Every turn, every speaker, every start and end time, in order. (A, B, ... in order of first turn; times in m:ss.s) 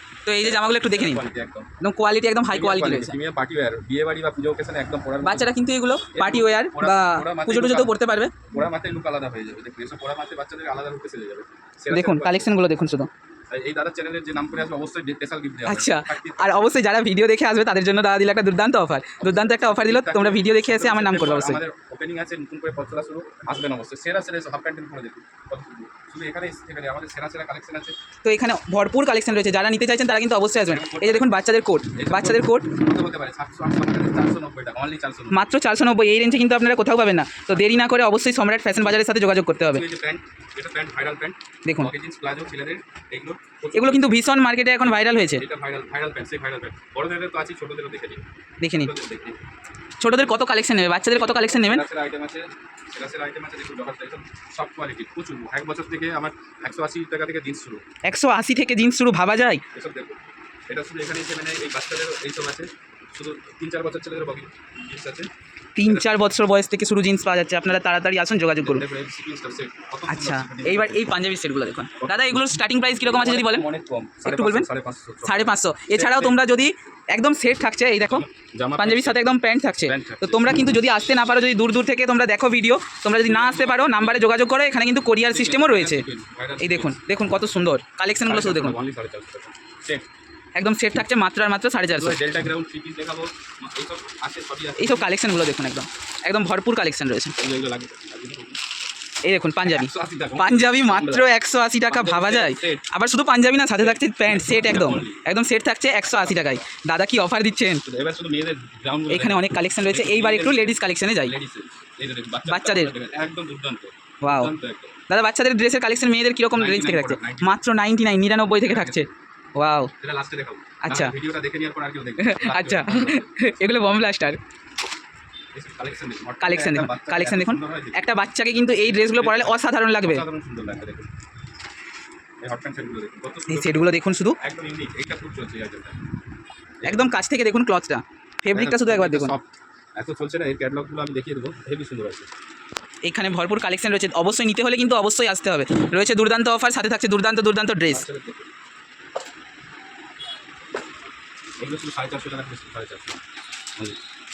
0:00.2-0:01.2 A
0:00.4-0:01.7 B
0:01.8-0:03.2 A
0:02.5-0:05.5 B
0:05.2-0:08.4 A
0:06.1-0:08.0 B
0:08.5-0:12.6 B
0:11.9-0:13.1 A
0:13.5-0:16.8 B
0:15.6-0:21.6 A
0:19.2-0:28.0 B
0:28.2-0:32.7 A
0:30.6-0:31.4 B
0:31.9-0:35.4 B
0:35.3-0:39.8 A
0:39.6-0:44.4 B
0:41.6-0:41.9 A
0:43.7-0:45.4 A
0:45.4-0:49.4 B
0:48.6-0:48.9 A
0:50.0-0:51.8 A
0:50.1-0:50.4 B
0:51.1-0:57.8 B
0:58.0-0:59.6 A
0:59.7-1:05.3 B
1:05.8-1:08.8 A
1:08.6-1:11.1 B
1:10.1-1:13.6 A
1:12.0-1:12.4 B
1:13.0-1:16.4 B
1:14.2-1:14.7 A
1:15.2-1:18.2 A
1:18.0-1:20.9 B
1:18.8-1:26.0 A
1:23.2-1:24.3 B
1:25.2-1:27.0 B
1:26.6-1:28.8 A
1:28.2-1:30.0 B
1:30.5-1:32.2 A
1:31.9-1:35.1 B
1:34.8-1:37.4 A
1:37.4-1:38.6 B
1:39.2-1:47.8 A
1:39.6-1:41.3 B
1:41.9-1:42.8 B
1:43.8-1:45.2 B
1:46.1-1:46.6 B
1:47.8-1:54.9 B
1:49.1-1:51.3 A
1:52.4-1:52.9 A
1:54.2-1:54.5 A
1:55.1-1:59.9 A
1:56.5-1:57.6 B
1:58.4-1:59.1 B
2:00.0-2:03.3 B
2:00.8-2:01.1 A
2:02.2-2:04.4 A
2:05.5-2:08.1 B
2:06.4-2:10.2 A
2:08.8-2:11.1 B
2:12.4-2:16.0 B
2:13.5-2:14.4 A
2:16.8-2:17.1 B
2:16.8-2:19.4 A
2:18.5-2:22.3 B
2:23.0-2:28.0 A
2:27.9-2:28.5 B
2:31.6-2:33.2 B